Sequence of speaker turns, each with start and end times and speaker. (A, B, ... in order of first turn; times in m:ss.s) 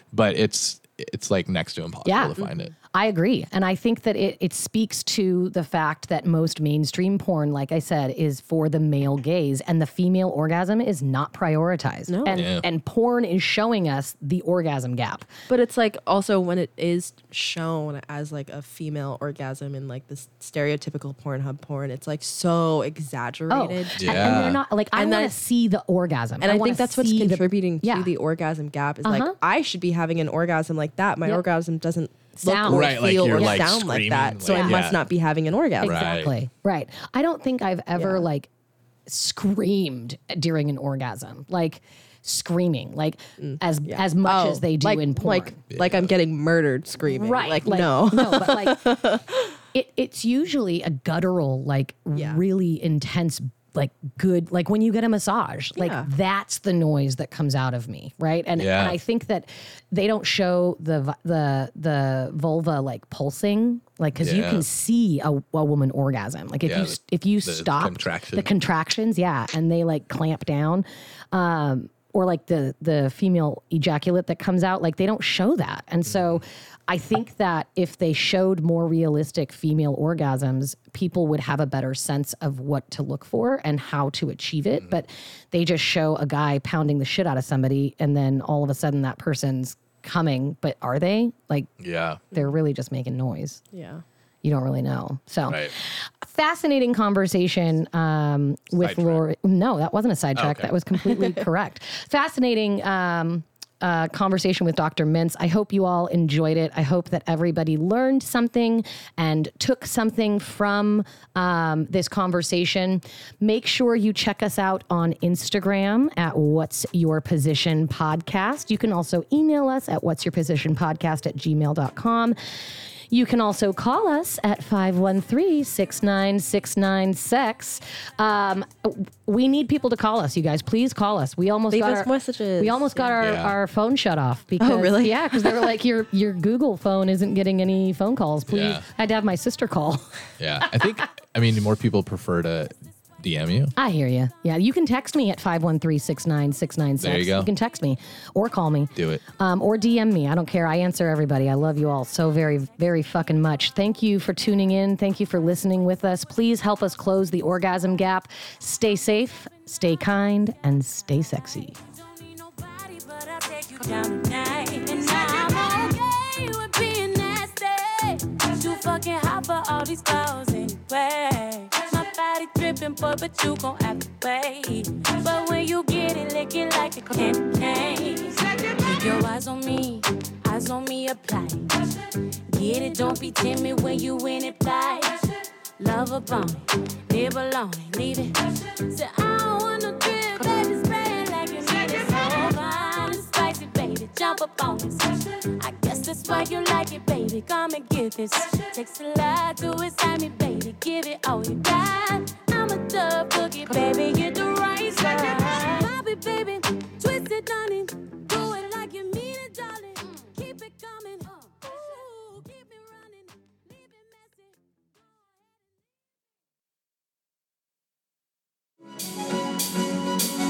0:00.1-0:02.7 A
0:02.0-0:02.4 B
0:02.4-0:02.7 C
0:02.9-0:15.3 B
0:12.1-0:12.5 C
0:12.3-0:12.6 A
0:15.5-0:25.4 C
0:23.5-0:28.1 B
0:24.0-0:24.6 A
0:26.4-0:36.0 C
0:29.0-0:29.4 B
0:32.4-0:33.6 B
0:32.6-0:35.0 A
0:34.4-0:34.8 B
0:35.8-0:36.3 A
0:35.8-0:38.5 B
0:37.9-0:38.3 C
0:39.1-0:45.6 B
0:43.4-0:49.6 C
0:45.7-0:46.1 A
0:47.1-0:48.9 B
0:49.7-1:31.7 B
0:52.1-0:52.4 C
0:55.8-0:56.1 C
0:58.6-0:59.0 A
1:04.2-1:04.6 A
1:06.6-1:08.5 A
1:16.0-1:16.4 A
1:31.8-1:32.2 A
1:32.3-1:33.6 B
1:33.7-1:34.0 C
1:34.4-2:02.4 B
1:35.5-1:35.7 A
1:38.8-1:39.2 A
1:40.4-1:40.7 A
2:03.1-2:20.3 B
2:11.7-2:13.1 C
2:13.2-2:13.6 A
2:14.6-2:15.8 C
2:18.5-2:18.8 A
2:20.4-2:23.7 A
2:23.7-2:41.8 B
2:27.0-2:27.5 A
2:29.0-2:29.2 A
2:41.9-3:01.7 D
3:02.5-3:34.5 D